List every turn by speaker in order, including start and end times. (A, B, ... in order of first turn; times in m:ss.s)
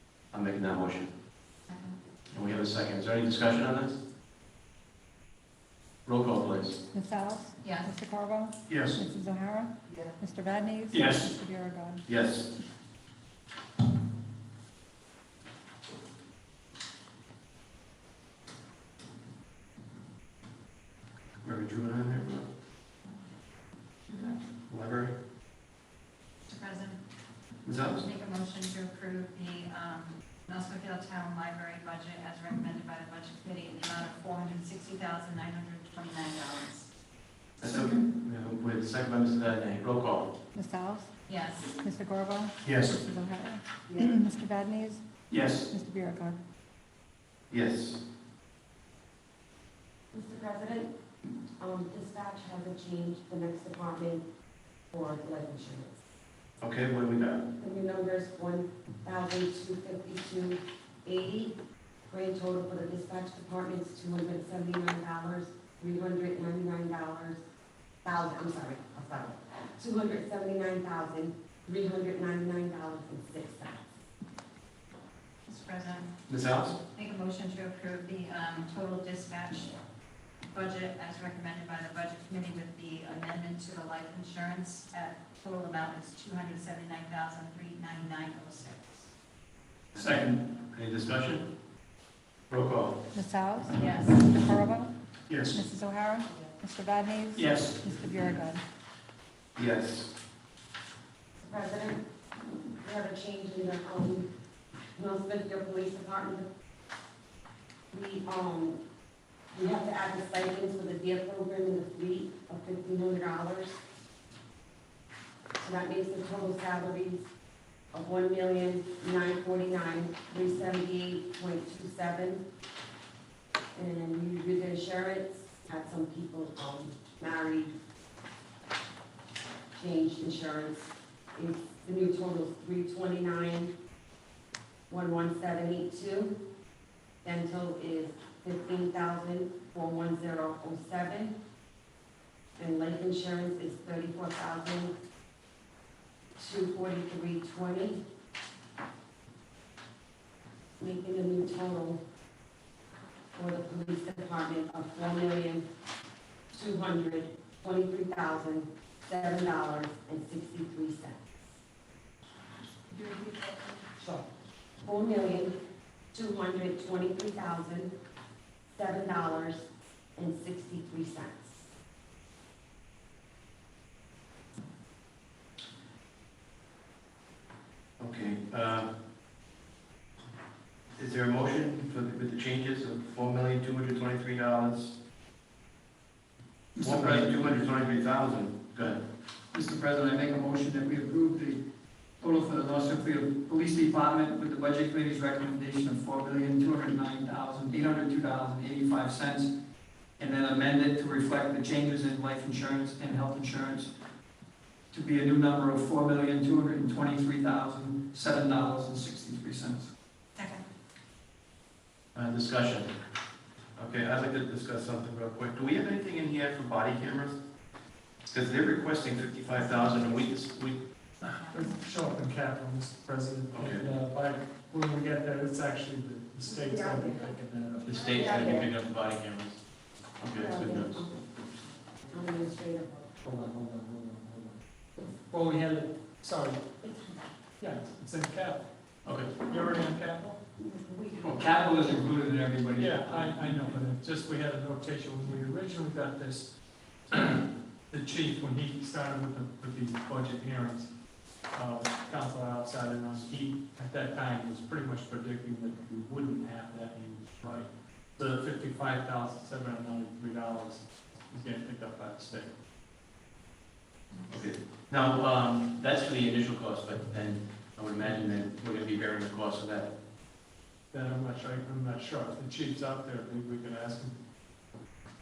0:00.3-0:01.1 A
0:01.7-0:02.0 B
0:02.3-0:04.0 A
0:06.0-0:06.8 A
0:06.9-0:09.7 C
0:07.6-0:07.9 B
0:08.7-0:09.0 A
0:10.2-0:12.0 C
0:10.9-0:11.3 D
0:12.0-0:12.5 A
0:21.4-0:22.5 A
0:24.7-0:25.1 A
0:26.5-0:27.0 B
0:27.6-0:28.0 A
0:28.0-0:36.9 B
0:37.6-0:40.3 A
0:40.5-0:41.1 C
0:41.3-0:41.8 B
0:41.8-0:45.0 C
0:45.3-0:45.7 D
0:45.9-0:46.3 C
0:47.5-0:48.0 A
0:50.1-0:50.9 E
0:51.6-0:54.2 E
0:54.9-0:55.9 E
0:56.6-0:57.4 A
0:57.6-1:01.6 E
1:02.1-1:07.4 E
1:08.0-1:13.8 E
1:15.5-1:16.1 B
1:16.3-1:16.8 A
1:16.9-1:19.8 B
1:20.5-1:29.1 B
1:29.9-1:31.5 A
1:30.0-1:30.4 D
1:32.5-1:33.0 A
1:33.1-1:33.8 C
1:33.7-1:34.5 B
1:34.5-1:34.9 C
1:35.3-1:35.6 D
1:35.8-1:37.4 C
1:37.3-1:37.9 D
1:38.1-1:38.6 C
1:39.6-1:40.1 A
1:41.4-1:42.0 E
1:42.8-1:44.3 E
1:45.0-1:46.5 E
1:47.9-1:48.8 E
1:49.5-1:53.8 E
1:55.6-1:57.2 E
1:57.9-2:02.4 E
2:03.7-2:07.7 E
2:09.7-2:13.7 E
2:14.9-2:16.4 E
2:17.2-2:21.3 E
2:22.6-2:24.9 E
2:26.4-2:28.0 E
2:30.8-2:32.0 E
2:33.3-2:35.6 E
2:36.5-2:41.2 E
2:44.0-2:44.2 E
2:44.8-2:45.5 E
2:46.1-2:47.9 E
2:48.7-2:51.5 E
2:58.0-2:58.9 A
3:01.0-3:04.9 A
3:06.7-3:07.6 D
3:06.8-3:09.0 A
3:09.5-3:11.6 D
3:12.2-3:19.5 D
3:20.2-3:23.9 D
3:24.9-3:29.9 D
3:30.4-3:30.6 B
3:32.1-3:32.9 A
3:33.8-3:37.4 A
3:38.3-3:40.8 A
3:41.2-3:48.1 F
3:41.5-3:41.7 B
3:43.5-3:43.9 A
3:46.5-3:47.3 E
3:47.8-3:49.6 A
3:47.9-3:48.7 E
3:50.2-3:51.0 A
3:50.4-3:51.2 E
3:52.1-3:53.1 E
3:53.2-3:54.6 F
3:55.3-3:56.7 F
3:57.6-3:58.6 F
3:59.0-3:59.3 A
3:59.4-4:00.4 F
4:00.7-4:01.2 E
4:01.2-4:03.4 D
4:02.8-4:06.5 F
4:07.1-4:10.9 F
4:11.5-4:22.5 F
4:24.3-4:29.9 A
4:30.9-4:34.1 F